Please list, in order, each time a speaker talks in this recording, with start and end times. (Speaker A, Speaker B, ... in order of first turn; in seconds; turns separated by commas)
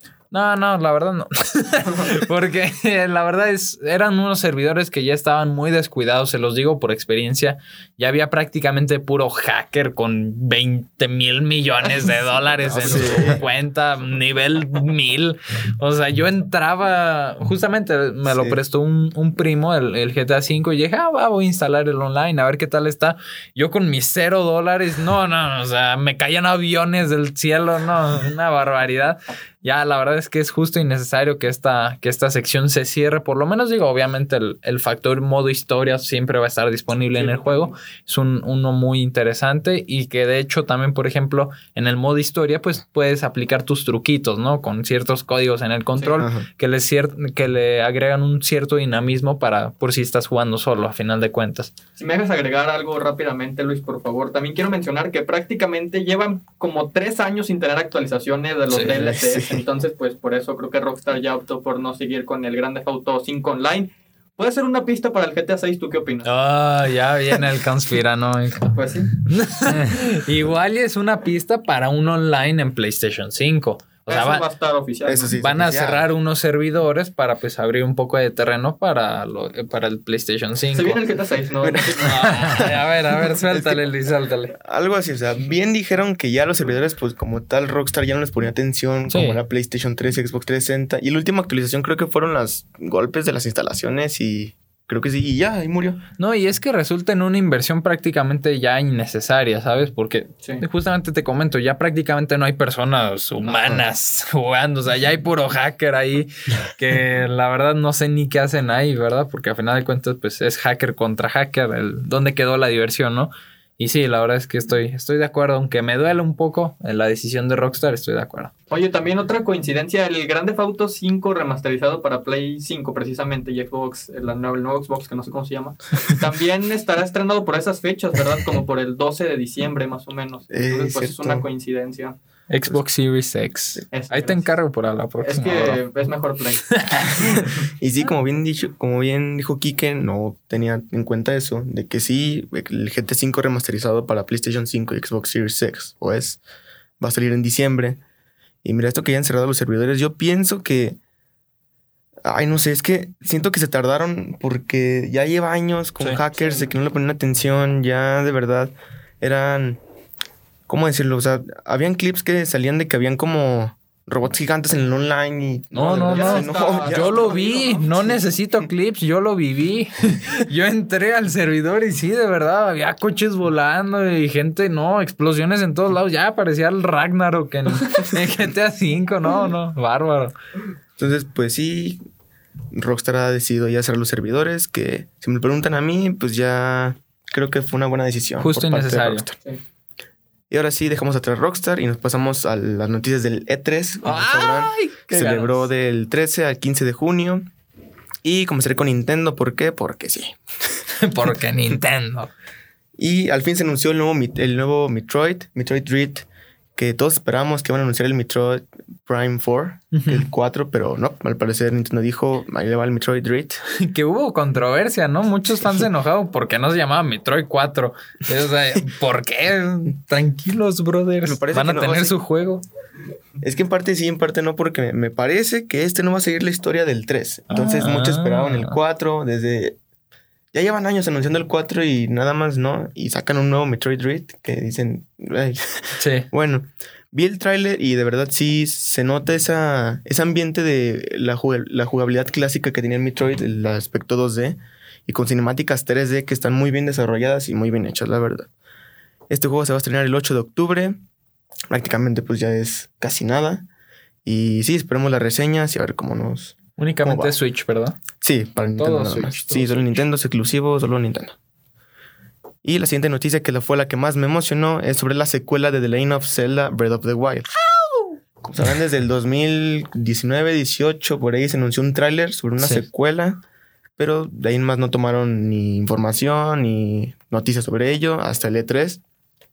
Speaker A: 0.3-51.7, Speaker B: 12.7-13.4, Speaker C: 12.8-13.4, Speaker B: 18.3-18.6, Speaker C: 37.1-37.7, Speaker C: 46.0-46.2, Speaker B: 46.2-46.5, Speaker C: 52.0-66.3, Speaker B: 58.8-59.7, Speaker A: 66.2-68.7, Speaker C: 68.7-69.1, Speaker A: 69.2-74.5, Speaker C: 74.1-75.3, Speaker B: 75.0-76.1, Speaker A: 75.4-81.0, Speaker C: 80.8-82.2, Speaker B: 81.6-82.8, Speaker A: 82.0-84.5, Speaker B: 83.5-83.8, Speaker B: 84.6-96.0, Speaker A: 89.1-89.4, Speaker A: 96.2-118.5, Speaker B: 103.5-103.8, Speaker C: 118.7-132.2, Speaker B: 130.5-131.4, Speaker A: 132.5-135.8, Speaker C: 133.9-134.5, Speaker C: 135.2-137.1, Speaker A: 136.7-137.4, Speaker B: 137.4-146.4, Speaker B: 147.0-148.0, Speaker B: 148.6-151.0, Speaker B: 152.3-159.8, Speaker C: 156.4-156.7, Speaker B: 160.7-167.4, Speaker A: 165.7-180.3, Speaker C: 165.8-168.0, Speaker B: 181.0-182.0, Speaker B: 182.7-189.4, Speaker A: 188.4-189.3, Speaker B: 190.5-197.5, Speaker A: 194.0-195.7, Speaker B: 198.2-200.8, Speaker A: 201.0-202.3, Speaker B: 203.0-213.6, Speaker A: 209.9-210.2, Speaker A: 213.7-222.7, Speaker B: 221.2-222.2, Speaker B: 223.4-229.8, Speaker A: 227.5-228.8, Speaker B: 230.5-248.5, Speaker A: 236.0-236.3, Speaker B: 249.3-251.0, Speaker B: 251.7-253.7, Speaker B: 254.2-257.3, Speaker A: 256.8-258.0, Speaker B: 258.2-261.4, Speaker A: 258.8-260.0, Speaker B: 262.6-267.5, Speaker A: 267.6-268.2, Speaker B: 268.4-273.4, Speaker A: 272.6-272.9, Speaker B: 274.0-279.0